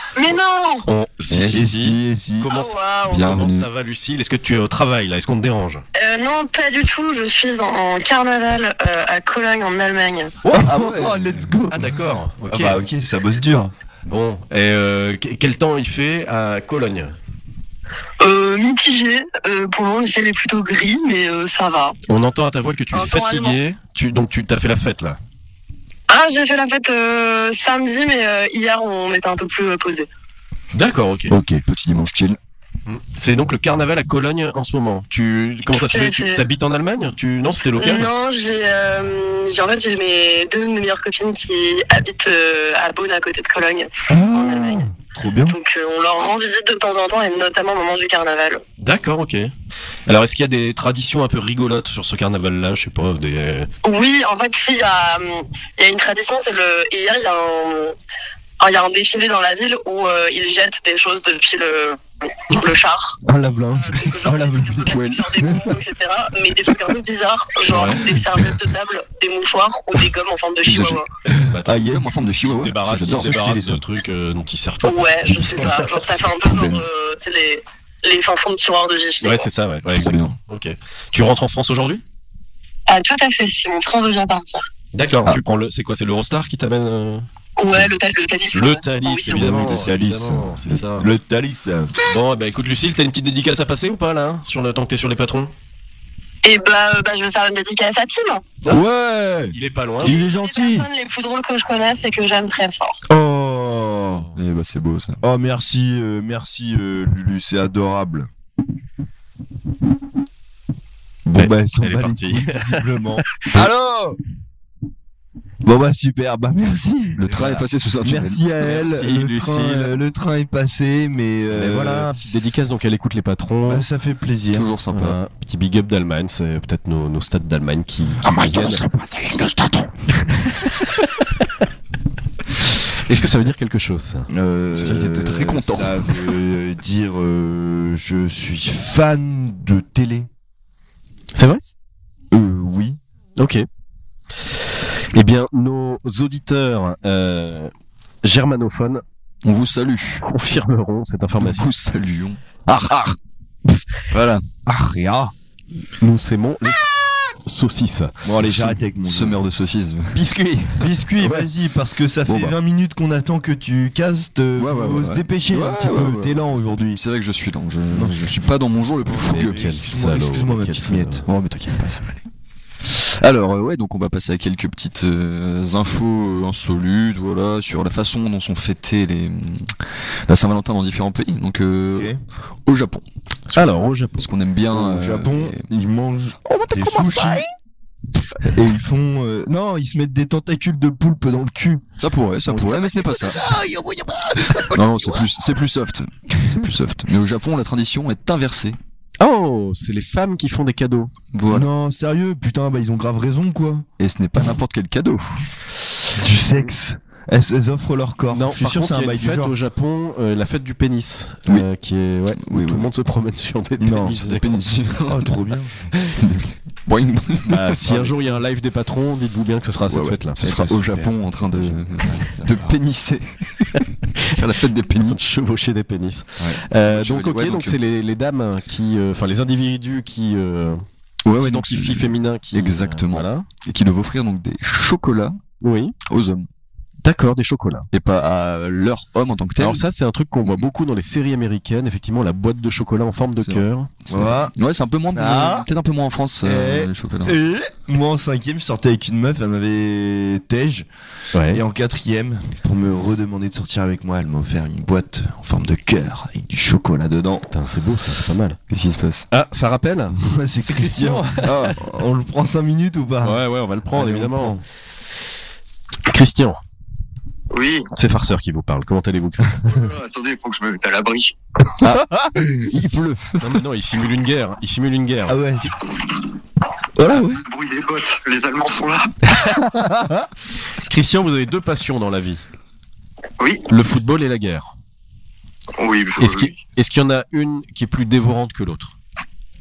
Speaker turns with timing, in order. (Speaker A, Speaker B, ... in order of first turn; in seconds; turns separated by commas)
Speaker A: 0.1-0.8, Speaker B: 0.8-5.8, Speaker C: 1.3-1.7, Speaker D: 1.5-2.5, Speaker A: 2.5-3.3, Speaker C: 3.1-3.7, Speaker A: 6.0-10.3, Speaker B: 10.4-11.0, Speaker D: 10.5-13.7, Speaker C: 10.6-11.5, Speaker B: 11.7-12.8, Speaker B: 14.1-17.1, Speaker A: 18.2-21.9, Speaker B: 22.1-25.2, Speaker A: 22.9-23.6, Speaker A: 26.1-30.1, Speaker B: 30.7-31.3, Speaker D: 31.3-31.6, Speaker C: 31.6-32.4, Speaker B: 32.9-38.1, Speaker A: 35.8-36.5, Speaker A: 37.8-44.9, Speaker D: 44.1-45.6, Speaker A: 45.5-48.6, Speaker B: 48.8-49.5, Speaker B: 50.0-53.7, Speaker A: 53.8-57.9, Speaker A: 58.6-63.2, Speaker D: 63.2-65.6, Speaker A: 63.9-71.0, Speaker C: 64.9-65.4, Speaker B: 67.7-68.0, Speaker C: 70.6-71.0, Speaker B: 71.4-75.8, Speaker D: 71.6-72.2, Speaker C: 71.7-73.7, Speaker D: 73.0-73.8, Speaker A: 74.8-79.5, Speaker C: 76.4-76.8, Speaker B: 79.2-82.0, Speaker C: 79.9-80.4, Speaker A: 82.9-84.6, Speaker B: 84.9-87.2, Speaker A: 87.6-89.6, Speaker B: 88.5-91.1, Speaker D: 89.3-91.9, Speaker B: 92.0-95.5, Speaker A: 96.4-98.5, Speaker D: 98.7-100.9, Speaker B: 99.5-100.2, Speaker A: 100.0-103.0, Speaker D: 103.1-104.2, Speaker C: 104.3-105.2, Speaker D: 105.2-108.3, Speaker D: 111.3-114.2, Speaker B: 111.4-112.9, Speaker D: 115.6-117.3, Speaker C: 117.2-118.4, Speaker B: 117.3-117.6, Speaker D: 118.0-122.1, Speaker B: 118.6-120.0, Speaker B: 121.5-123.8, Speaker D: 123.7-124.7, Speaker C: 124.5-125.2, Speaker B: 124.9-128.8, Speaker D: 128.2-129.9, Speaker B: 133.1-134.3, Speaker D: 134.3-140.3, Speaker C: 134.7-136.3, Speaker B: 141.3-141.7, Speaker D: 142.3-143.0, Speaker B: 143.4-143.7, Speaker B: 144.4-147.7, Speaker B: 148.2-149.0, Speaker C: 149.4-150.2, Speaker B: 150.2-151.7, Speaker C: 151.4-152.4, Speaker D: 152.7-153.1, Speaker C: 154.1-154.4, Speaker D: 154.7-155.3, Speaker B: 156.0-156.9, Speaker B: 157.4-158.2, Speaker D: 158.2-159.4, Speaker C: 158.4-160.2, Speaker B: 160.1-160.9, Speaker D: 160.8-167.0, Speaker C: 161.2-161.5, Speaker C: 162.2-162.5, Speaker C: 164.6-169.7, Speaker D: 167.9-168.2, Speaker D: 169.1-171.2, Speaker B: 169.2-171.3, Speaker C: 171.3-172.2, Speaker C: 172.9-182.1, Speaker C: 182.7-183.6, Speaker B: 183.5-184.3, Speaker C: 184.2-185.7, Speaker D: 184.7-187.4, Speaker C: 186.4-187.4, Speaker D: 188.5-191.8, Speaker C: 192.0-193.4, Speaker D: 192.7-195.2, Speaker C: 194.7-198.8, Speaker B: 199.2-201.1, Speaker C: 201.3-201.7, Speaker D: 201.5-203.9, Speaker C: 204.0-205.5, Speaker D: 206.1-209.5, Speaker B: 208.3-214.5, Speaker C: 212.4-212.9, Speaker D: 213.8-214.2, Speaker C: 214.2-215.3, Speaker D: 215.1-215.9, Speaker C: 216.1-218.1, Speaker B: 217.5-220.4, Speaker C: 219.9-225.2, Speaker D: 220.4-222.7, Speaker B: 225.0-233.5, Speaker C: 226.4-227.8, Speaker C: 231.2-235.4, Speaker B: 235.6-235.9, Speaker C: 236.1-236.5, Speaker B: 237.0-237.9, Speaker C: 237.9-239.8, Speaker B: 239.6-244.0, Speaker C: 243.4-247.4, Speaker D: 244.1-244.5, Speaker D: 245.1-245.7, Speaker D: 246.4-250.9, Speaker B: 251.3-251.6, Speaker D: 251.5-257.5, Speaker B: 257.5-258.6, Speaker C: 258.7-259.3, Speaker B: 259.3-261.7, Speaker D: 260.2-264.6, Speaker B: 263.2-264.6, Speaker B: 266.1-266.6, Speaker E: 267.5-267.9, Speaker B: 267.9-269.6, Speaker E: 269.6-271.4, Speaker C: 271.8-273.5, Speaker D: 271.8-272.7, Speaker B: 273.4-275.4, Speaker D: 275.3-275.8, Speaker D: 276.9-277.4, Speaker E: 277.4-279.1, Speaker B: 279.3-279.6, Speaker D: 279.6-280.3, Speaker B: 280.8-282.4, Speaker E: 283.4-283.6, Speaker B: 283.7-284.7, Speaker E: 285.8-286.5, Speaker B: 286.2-288.9